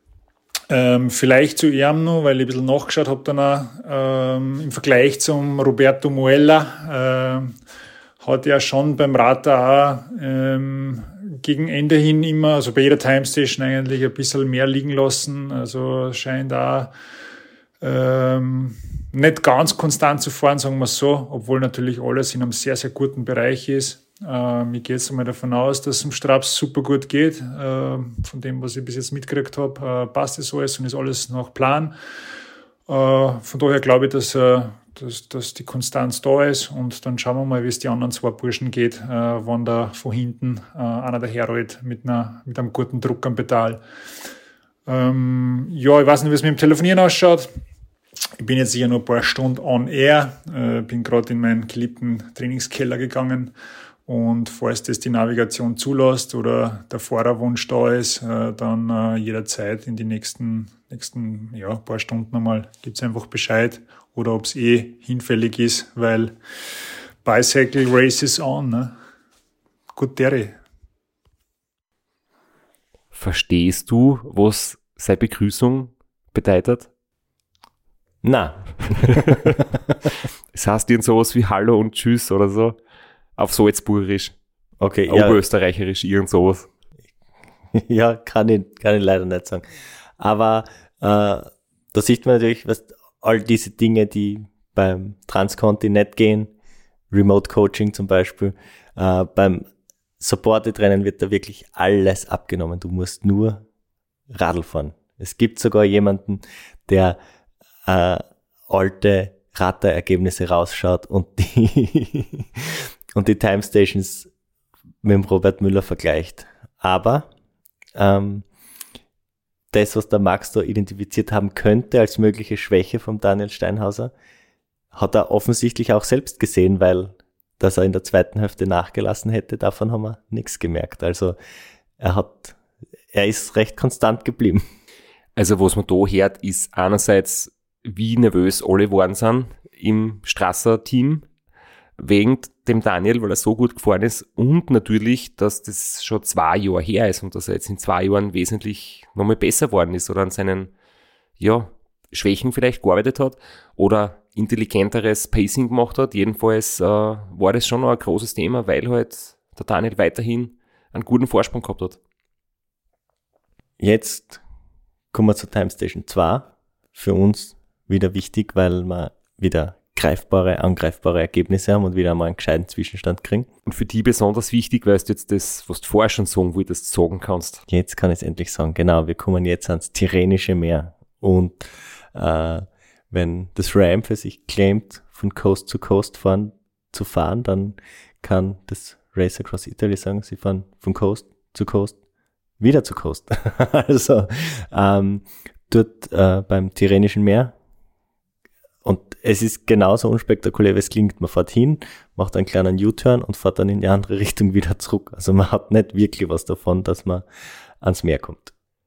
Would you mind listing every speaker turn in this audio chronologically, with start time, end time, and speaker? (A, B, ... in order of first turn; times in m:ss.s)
0:00.7-0:07.5 A
0:08.2-0:16.9 A
0:17.8-0:31.9 A
0:32.9-0:43.8 A
0:44.9-0:47.5 A
0:48.4-0:53.5 A
0:54.1-1:06.4 A
1:07.2-1:08.9 A
1:10.0-1:10.6 A
1:13.1-1:16.9 B
1:18.2-1:19.8 C
1:19.2-1:19.6 B
1:20.5-1:22.8 B
1:23.4-1:24.4 B
1:24.8-1:25.4 C
1:25.1-1:26.7 B
1:27.7-1:29.6 C
1:30.2-1:36.5 C
1:37.1-1:39.7 C
1:40.2-1:43.6 C
1:44.3-1:47.2 C
1:47.9-1:54.3 C
1:55.0-1:57.3 C
1:58.0-1:58.5 C
1:59.7-2:04.1 C
2:04.9-2:11.4 C
2:12.0-2:12.6 C
2:13.1-2:14.6 C
2:15.4-2:21.3 B
2:22.0-2:30.7 B
2:31.4-2:42.0 B
2:43.8-2:44.4 C
2:45.1-2:53.5 C
2:53.7-2:57.6 B
2:57.7-3:12.0 C
3:12.6-3:17.6 C
3:18.8-3:27.3 C
3:27.8-3:28.5 C